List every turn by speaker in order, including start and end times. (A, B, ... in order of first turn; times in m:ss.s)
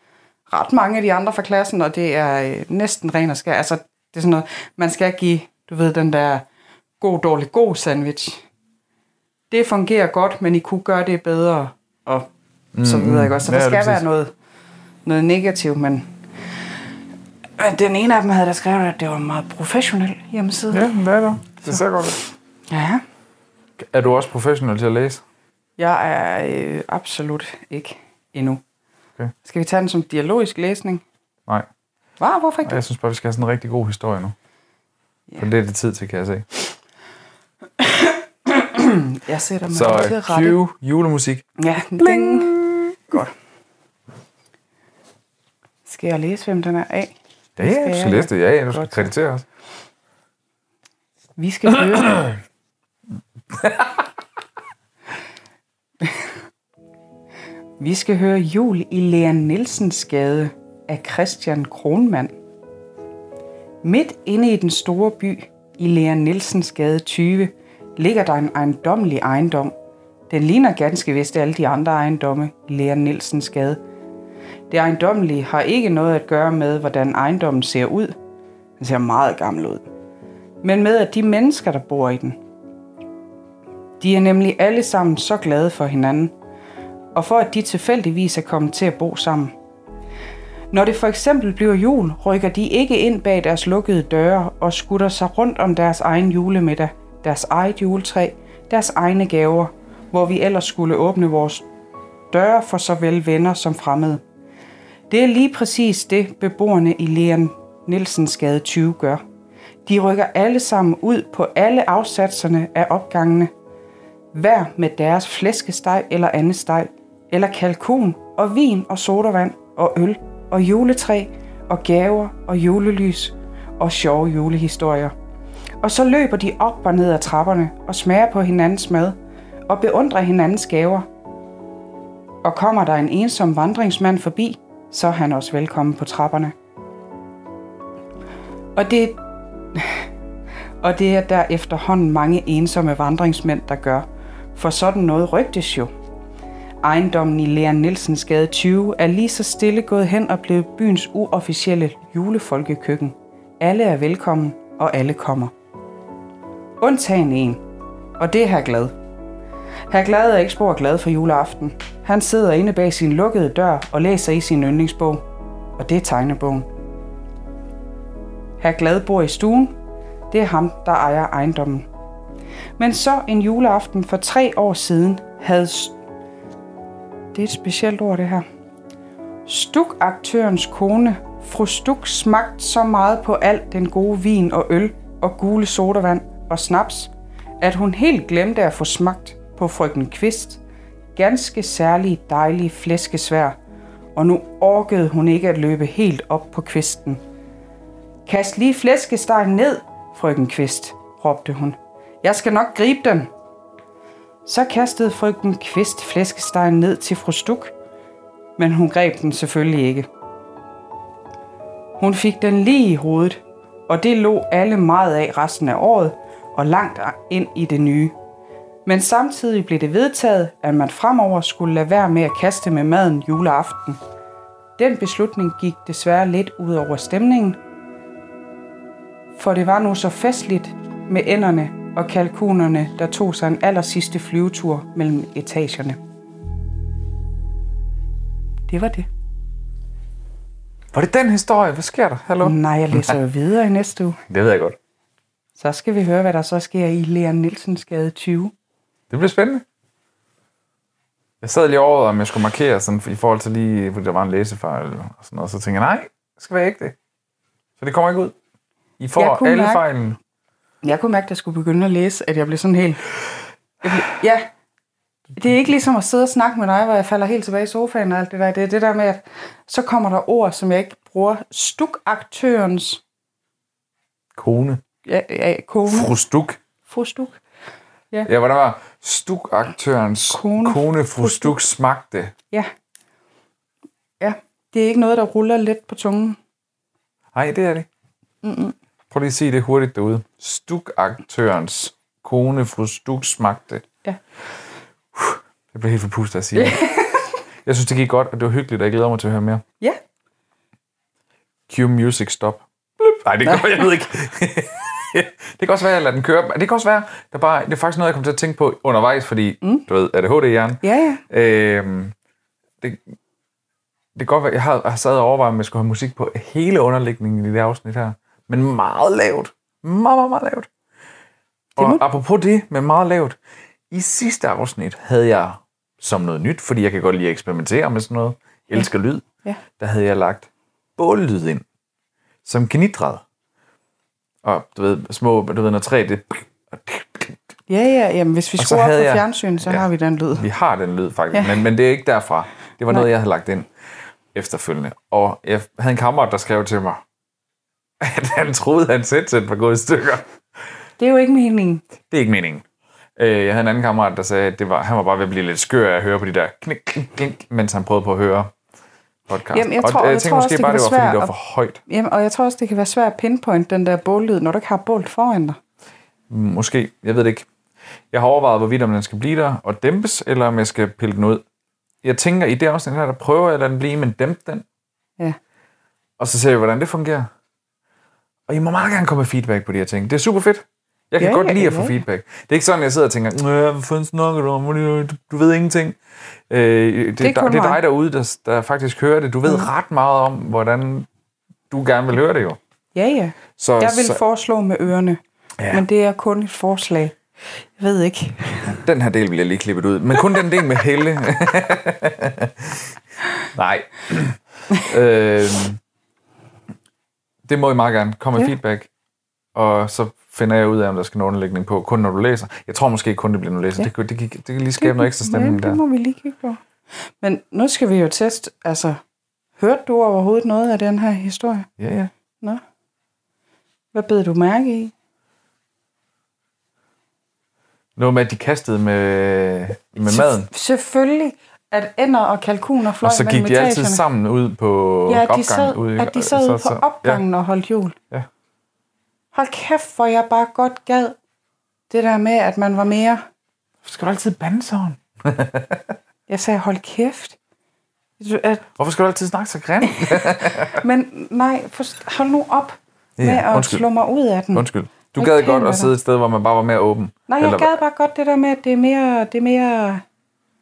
0:00.5-0:06.4 A
0:07.0-0:08.4 A
0:09.5-0:12.3 A
0:12.7-0:14.0 B
0:12.8-0:14.3 A
0:15.0-0:16.0 A
0:17.6-0:20.9 A
0:20.7-0:22.2 B
0:22.7-0:23.0 A
0:23.8-0:25.2 B
0:25.8-0:28.6 A
0:29.4-0:31.0 A
0:32.2-0:32.8 A
0:32.6-0:34.3 B
0:35.4-0:36.4 B
0:37.8-0:40.6 A
0:39.7-0:41.4 B
0:41.6-0:43.3 A
0:42.0-0:43.2 B
0:45.8-0:49.1 A
0:47.6-0:49.4 B
0:51.4-0:52.4 A
0:53.5-0:54.0 B
0:57.8-1:02.3 A
1:03.8-1:09.7 A
1:10.3-1:13.8 A
1:14.7-1:18.2 A
1:18.8-1:19.9 A
1:20.6-1:22.4 A
1:24.0-1:26.3 A
1:27.1-1:29.5 A
1:30.7-1:41.6 A
1:42.3-1:44.2 A
1:45.1-1:49.2 A
1:49.8-1:53.5 A
1:54.3-2:05.1 A
2:05.8-2:09.2 A
2:09.7-2:11.0 A
2:12.4-2:16.5 A
2:18.8-2:19.2 A
2:19.7-2:20.0 A
2:20.8-2:25.9 A
2:26.8-2:35.5 A
2:36.8-2:37.6 A
2:38.2-2:38.9 A
2:39.9-2:45.2 A
2:45.8-2:46.7 A
2:48.6-2:49.8 A
2:50.3-2:51.8 A
2:52.8-2:56.0 A
2:57.3-2:58.4 A
2:59.4-3:10.6 A
3:11.2-3:13.6 A
3:14.2-3:17.2 A
3:18.2-3:23.3 A
3:24.4-3:27.7 A
3:28.6-3:30.1 A
3:32.0-3:38.1 A
3:38.8-3:44.0 A
3:44.8-3:47.6 A
3:49.4-3:56.0 A
3:58.7-3:59.1 A
4:00.9-4:03.2 B
4:02.4-4:04.2 A
4:04.3-4:04.8 B
4:05.6-4:08.5 A
4:09.1-4:09.6 B
4:11.4-4:17.0 B
4:17.8-4:18.3 B
4:19.0-4:20.2 B
4:19.2-4:19.8 A
4:20.8-4:23.0 A
4:23.8-4:24.5 A
4:25.4-4:33.0 A
4:34.3-4:34.8 B
4:35.0-4:36.1 A
4:35.9-4:36.6 B
4:36.9-4:37.4 A
4:38.2-4:42.3 B
4:40.3-4:41.6 A
4:44.2-4:46.4 A
4:47.3-4:47.9 B
4:48.4-4:48.7 A
4:49.1-4:53.8 B
4:55.1-4:56.8 B
4:56.5-4:57.3 A
4:57.6-4:59.6 B
5:01.7-5:12.1 B
5:10.8-5:11.2 A
5:14.1-5:20.7 B
5:21.8-5:22.0 A
5:21.8-5:23.4 B
5:23.9-5:29.2 B
5:29.8-5:31.6 B
5:32.4-5:33.2 B
5:34.4-5:37.4 B
5:37.7-5:40.4 A
5:38.6-5:39.8 B
5:40.4-5:43.7 B
5:41.3-5:41.6 A
5:44.3-5:47.0 B
5:48.0-5:50.2 B
5:51.0-5:51.8 A
5:52.0-5:52.6 B
5:53.2-5:58.5 B
5:59.3-6:01.8 B
5:59.5-6:01.3 A
6:01.8-6:05.6 A
6:06.3-6:07.5 B
6:08.1-6:11.4 B
6:12.0-6:14.6 B
6:16.2-6:17.3 B
6:18.5-6:26.0 B
6:21.2-6:22.0 A
6:26.5-6:31.1 B
6:27.2-6:27.8 A
6:31.7-6:32.6 B
6:32.9-6:37.2 A
6:33.6-6:34.2 B
6:35.6-6:35.8 B
6:37.8-6:38.8 A
6:38.8-6:42.9 B
6:43.5-6:45.8 B
6:47.4-6:48.9 B
6:49.5-6:55.8 B
6:54.8-6:56.6 A
6:57.2-6:59.0 A
6:59.6-7:01.7 A
7:01.8-7:02.1 B
7:03.9-7:04.9 A
7:08.0-7:10.5 B
7:10.0-7:14.0 A
7:13.0-7:17.2 B
7:15.1-7:18.0 A
7:19.3-7:21.2 A
7:21.9-7:23.2 A
7:23.8-7:25.8 B
7:26.3-7:27.4 A
7:28.2-7:28.6 A
7:28.8-7:30.8 B
7:29.8-7:35.9 A
7:33.2-7:33.8 B
7:34.5-7:37.8 B
7:37.3-7:40.0 A